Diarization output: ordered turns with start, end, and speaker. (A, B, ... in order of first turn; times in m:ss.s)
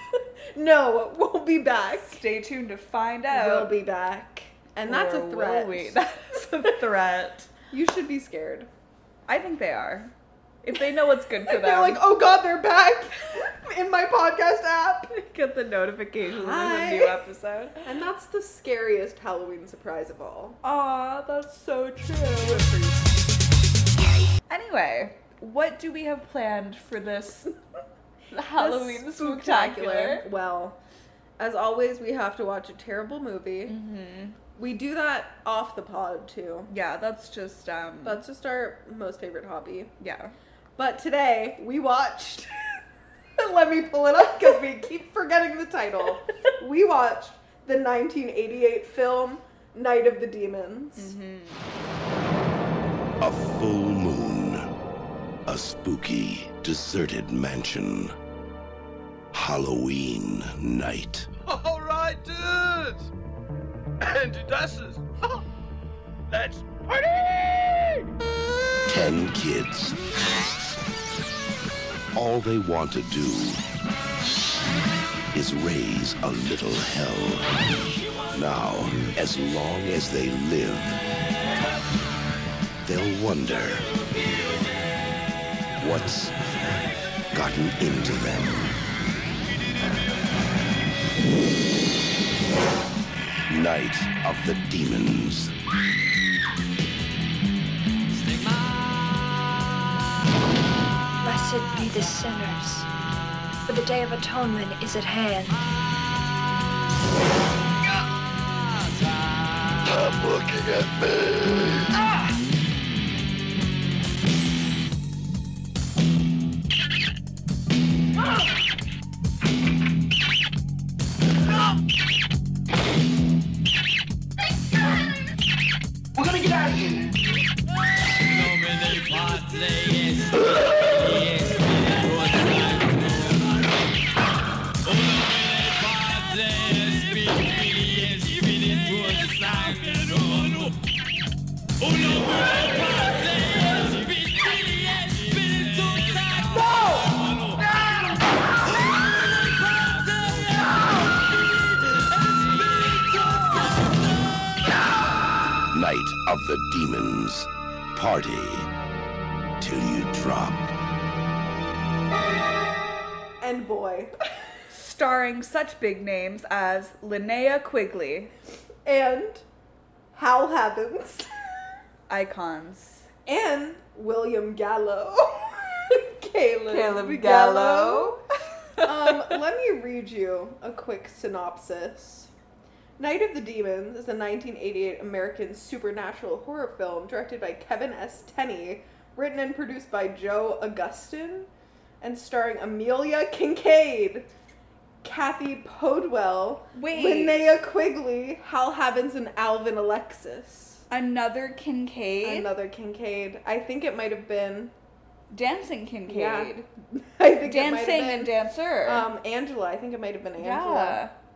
0:00.5-0:02.2 A
0:02.1-0:03.7 B
0:03.3-0:06.0 A
0:04.9-0:07.5 B
0:07.7-0:08.7 A
0:09.3-0:10.1 B
0:10.6-0:12.0 B
0:11.5-0:15.2 A
0:15.2-0:17.8 B
0:16.3-0:17.2 A
0:17.8-0:20.6 A
0:20.6-0:22.7 B
0:22.3-0:23.0 A
0:24.5-0:27.5 B
0:28.3-0:30.8 A
0:28.3-0:30.2 B
0:31.4-0:33.8 A
0:33.6-0:34.4 B
0:34.5-0:36.7 A
0:36.7-0:38.2 B
0:38.0-0:39.9 A
0:40.0-0:40.3 B
0:40.8-0:42.5 A
0:43.4-0:51.1 A
0:51.0-0:51.6 B
0:53.2-0:54.7 C
0:55.4-0:58.1 C
0:59.3-1:01.3 C
1:01.4-1:03.1 D
1:04.0-1:05.4 D
1:06.3-1:08.1 D
1:08.9-1:10.0 C
1:12.1-1:13.6 C
1:15.3-1:17.5 C
1:18.1-1:21.0 C
1:22.8-1:24.2 C
1:25.8-1:26.4 C
1:27.3-1:28.7 C
1:33.5-1:35.5 C
1:41.2-1:42.8 E
1:43.7-1:45.6 E
2:35.7-2:38.7 C
2:39.6-2:40.7 C
2:43.4-2:44.1 A
2:44.7-2:48.3 B
2:48.8-2:49.4 A
2:50.1-2:51.3 A
2:52.1-2:53.1 B
2:53.2-2:58.2 A
2:56.7-2:58.2 B
2:58.8-2:59.3 B
2:58.8-3:02.3 A
3:03.0-3:11.5 A
3:12.0-3:14.3 A
3:15.0-3:20.8 A
3:16.7-3:17.4 B
3:20.9-3:22.5 B
3:22.2-3:24.7 A
3:25.3-3:26.7 B
3:26.1-3:26.5 A
3:27.2-3:28.3 A
3:27.4-3:29.0 B
3:28.8-3:31.0 A
3:30.4-3:31.1 B